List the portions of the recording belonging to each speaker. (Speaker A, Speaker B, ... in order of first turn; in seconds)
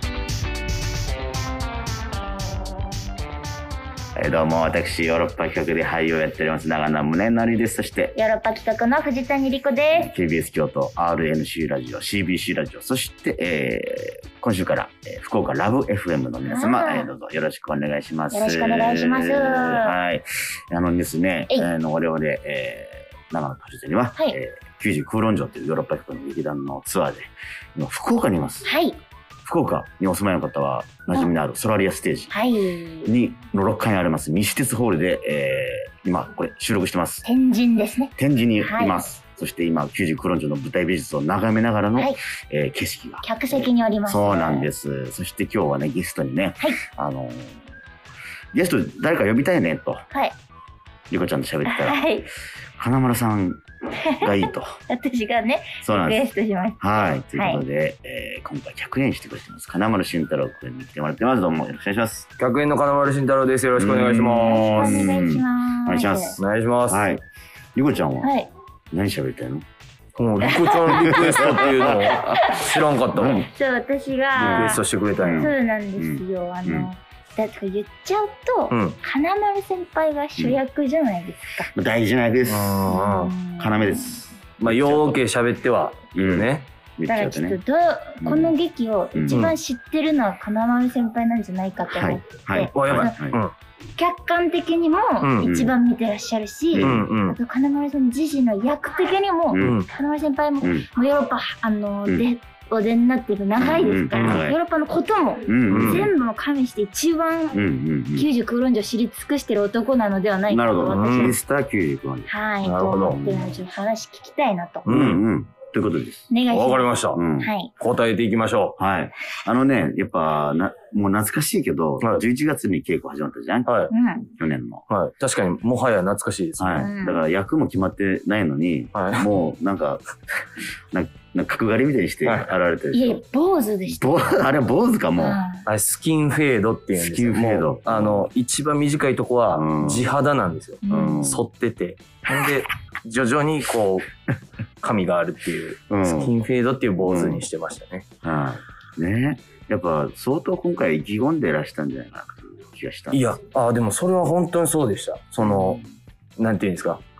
Speaker A: 4.1-8.1, 9.9-28.7, 29.4-32.3, 33.0-37.3, 38.2-47.6, 48.5-50.1, 51.1-52.1, 52.8-53.6, 54.2-54.8, 55.8-56.2, 56.8-62.3, 63.8-67.2, 67.7-68.3, 68.9-69.6, 70.9-73.5, 74.4-76.9, 81.7-83.0, 83.6-85.2, 86.1-87.6, 88.2-88.5, 89.1-89.5, 91.9-93.4, 95.4-95.7, 96.7-97.0, 99.5-99.8, 100.6-100.9, 103.6-104.6, 105.5-106.1, 107.5-108.3, 110.5-112.3, 112.9-113.6, 114.8-116.3, 117.1-117.5, 118.8-123.8, 124.3-124.8, 126.6-130.1, 130.9-133.2, 133.9-135.4, 136.9-138.3, 139.5-140.1, 140.9-141.5, 145.9-146.4, 147.0-147.4, 148.2-153.3, 155.4-155.8
Speaker B: 8.1-10.1, 16.4-17.1, 18.3-20.0, 28.6-29.0, 32.3-33.1, 37.2-39.0, 43.2-44.7, 51.6-52.3, 54.0-56.8, 57.4-57.6, 64.4-66.4, 68.2-68.5, 70.6-72.7, 73.4-81.7, 82.9-84.2, 87.1-93.2, 94.0-107.6, 108.1-111.3, 112.3-114.9, 116.3-117.7, 123.9-124.3, 126.8-127.2, 132.9-134.1, 135.2-135.6, 140.8-141.2
Speaker C: 62.4-65.1, 66.4-67.0, 70.1-73.5, 74.3-75.5, 78.7-79.0, 82.5-83.3, 84.6-86.7, 89.2-89.5, 92.7-93.5, 95.2-95.5, 96.8-97.4, 99.6-99.9, 104.1-104.4, 105.7-106.1, 110.9-111.3, 112.6-113.2, 114.8-115.2, 116.5-117.2, 117.8-118.8, 123.7-123.9, 124.9-126.9, 128.9-129.3, 132.2-132.5, 135.7-144.1, 144.8-148.1, 153.1-155.8, 156.4-157.0